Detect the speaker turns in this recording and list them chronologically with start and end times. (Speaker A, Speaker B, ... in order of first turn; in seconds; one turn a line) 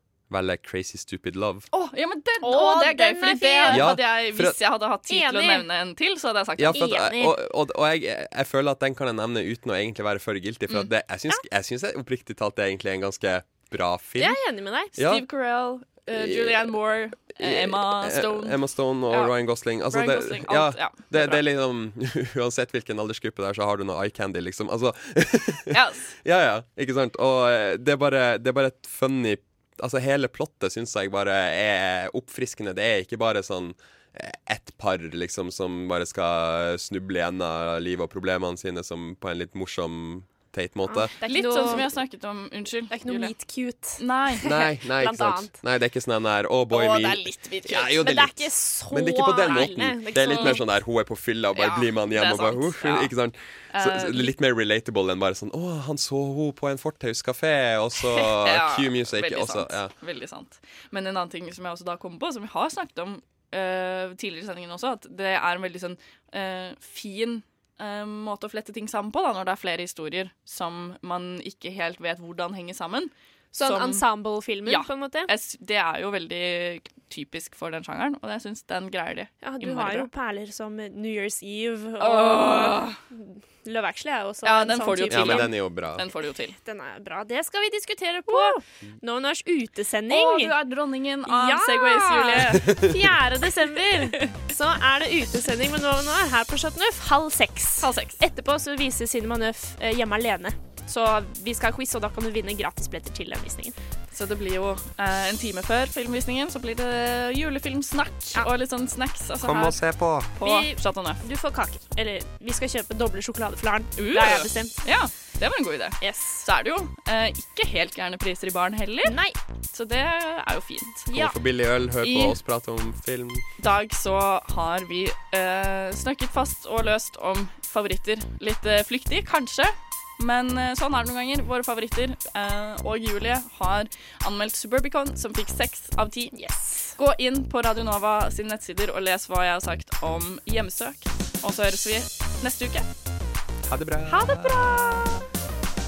Speaker A: 0.3-1.7
Speaker B: 1.7-7.0
Speaker C: 2.4-3.9
Speaker A: 3.7-4.5
Speaker C: 5.1-5.7
Speaker A: 6.6-14.4
Speaker C: 6.7-7.3
Speaker C: 14.2-14.9
Speaker A: 14.9-15.2
Speaker B: 15.0-19.3
Speaker A: 16.1-16.7
Speaker A: 17.4-41.1
Speaker B: 19.9-21.4
Speaker B: 25.7-26.1
Speaker C: 40.9-41.9
Speaker B: 41.2-43.3
Speaker C: 42.9-45.6
Speaker B: 44.0-44.4
Speaker A: 44.4-59.9
Speaker B: 46.7-47.9
Speaker C: 47.7-50.6
Speaker B: 50.3-50.6
Speaker B: 51.5-53.1
Speaker B: 53.7-54.3
Speaker B: 58.4-74.0
Speaker C: 73.5-75.3
Speaker B: 74.6-80.1
Speaker C: 79.4-85.5
Speaker B: 82.0-83.0
Speaker B: 84.4-86.5
Speaker A: 85.1-86.0
Speaker C: 86.6-90.5
Speaker B: 88.3-88.6
Speaker B: 90.1-92.8
Speaker C: 91.3-103.7
Speaker B: 93.9-94.3
Speaker B: 97.8-98.2
Speaker B: 104.1-109.8
Speaker A: 109.4-110.3
Speaker B: 110.3-111.2
Speaker C: 110.4-114.7
Speaker B: 114.0-119.2
Speaker C: 116.0-116.5
Speaker C: 119.0-119.3
Speaker B: 119.7-121.1
Speaker C: 121.1-121.3
Speaker A: 121.1-123.4
Speaker B: 122.0-122.4
Speaker B: 123.6-142.9
Speaker C: 136.3-136.9
Speaker A: 143.7-144.9
Speaker C: 144.1-145.2